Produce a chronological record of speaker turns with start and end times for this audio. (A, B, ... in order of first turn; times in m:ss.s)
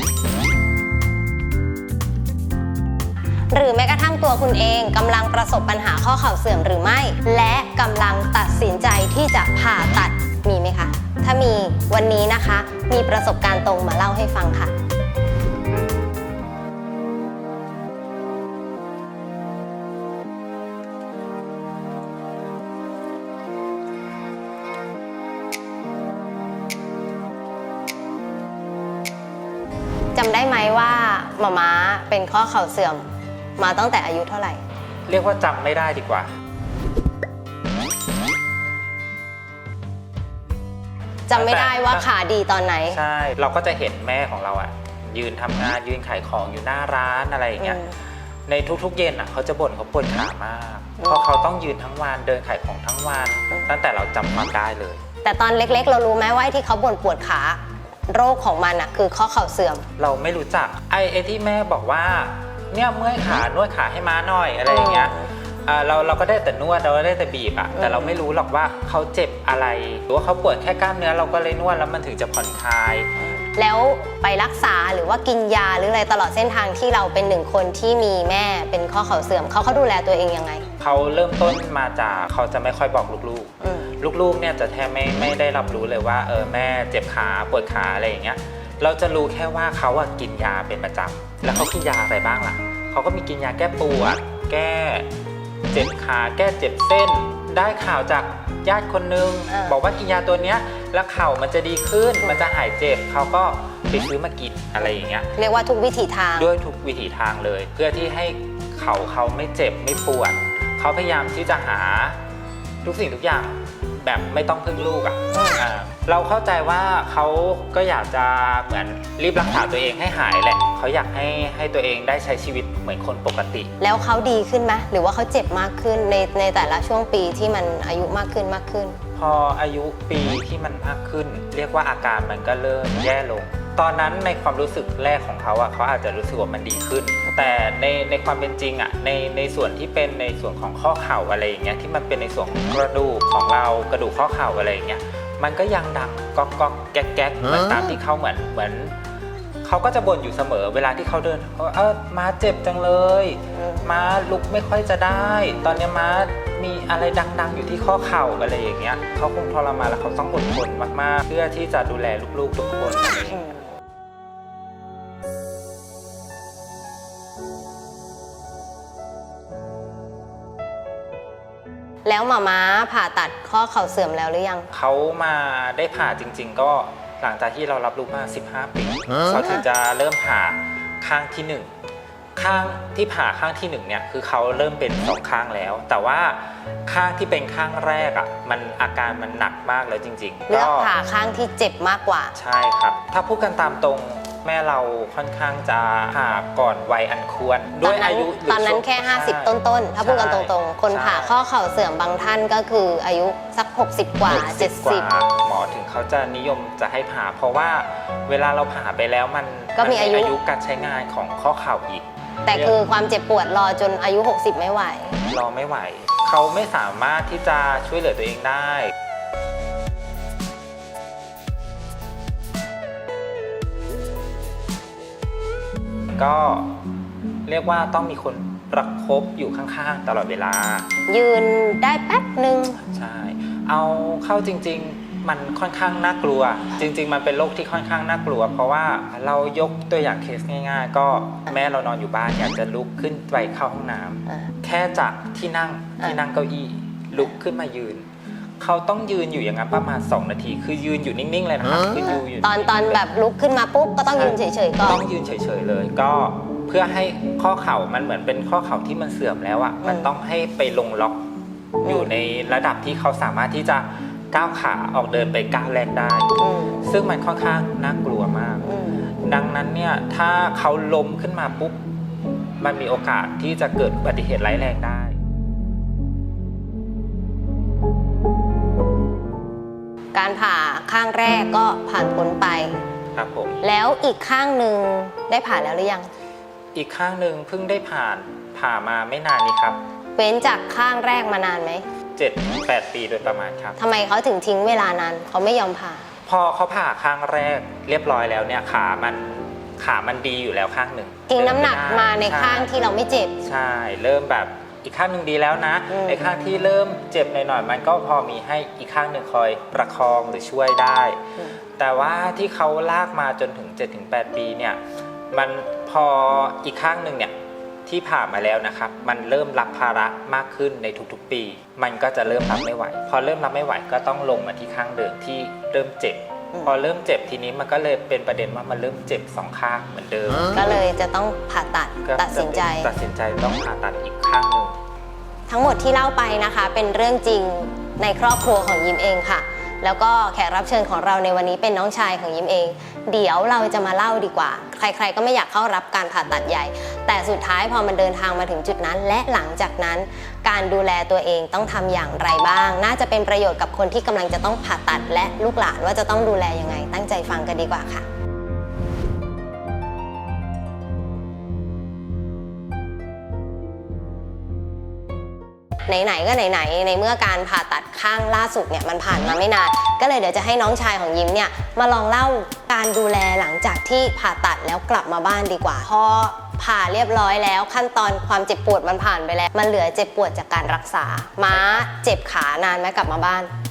0:03.5-0:14.7 A
0:30.2-0:33.0 A
0:33.6-0:34.6 A
0:35.1-0:36.3 B
0:41.3-0:43.0 A
0:41.3-0:42.1 B
0:42.9-0:47.8 B
0:47.6-0:47.9 A
0:48.5-0:55.0 B
0:55.2-0:57.6 A
0:58.1-0:59.9 A
1:00.0-1:13.1 B
1:04.7-1:05.3 A
1:07.8-1:08.2 A
1:13.5-1:20.7 A
1:20.8-1:35.1 B
1:23.6-1:23.9 A
1:35.7-1:45.3 B
1:39.5-1:39.8 A
1:45.4-1:46.5 A
1:46.4-1:52.2 B
1:52.8-2:03.7 B
2:03.8-2:09.0 A
2:09.2-2:29.0 B
2:29.6-2:43.5 B
2:33.6-2:33.9 A
2:52.0-2:54.7 A
2:54.7-3:01.7 B
3:02.4-3:10.9 B
3:10.5-3:12.3 A
3:12.4-3:21.4 B
3:17.8-3:25.1 A
3:24.3-3:32.8 B
3:29.8-3:30.3 A
3:32.5-3:35.2 A
3:35.3-3:38.9 B
3:46.2-3:46.7 B
3:47.5-3:50.9 B
3:51.1-3:52.8 A
3:52.9-4:08.0 B
4:08.6-4:13.0 B
4:12.4-4:15.0 A
4:14.1-4:21.2 B
4:19.8-4:20.1 A
4:21.8-4:26.3 B
4:21.8-4:22.1 A
4:26.4-4:26.9 A
4:26.8-4:28.7 B
4:28.6-4:29.1 A
4:29.2-4:31.8 B
4:32.6-4:35.2 B
4:40.1-4:42.8 A
4:43.2-4:43.6 B
4:43.6-4:46.1 A
4:46.8-4:49.8 B
4:50.2-4:51.8 A
4:52.2-4:53.8 B
4:53.8-4:56.1 A
4:56.3-5:02.8 B
5:01.3-5:03.4 A
5:03.4-5:11.2 B
5:05.9-5:06.3 A
5:11.8-5:14.8 B
5:15.3-5:17.3 B
5:17.9-5:30.8 B
5:30.5-5:32.9 A
5:32.0-5:34.8 B
5:35.5-5:58.1 A
6:05.9-6:23.5 A
6:21.5-6:21.8 B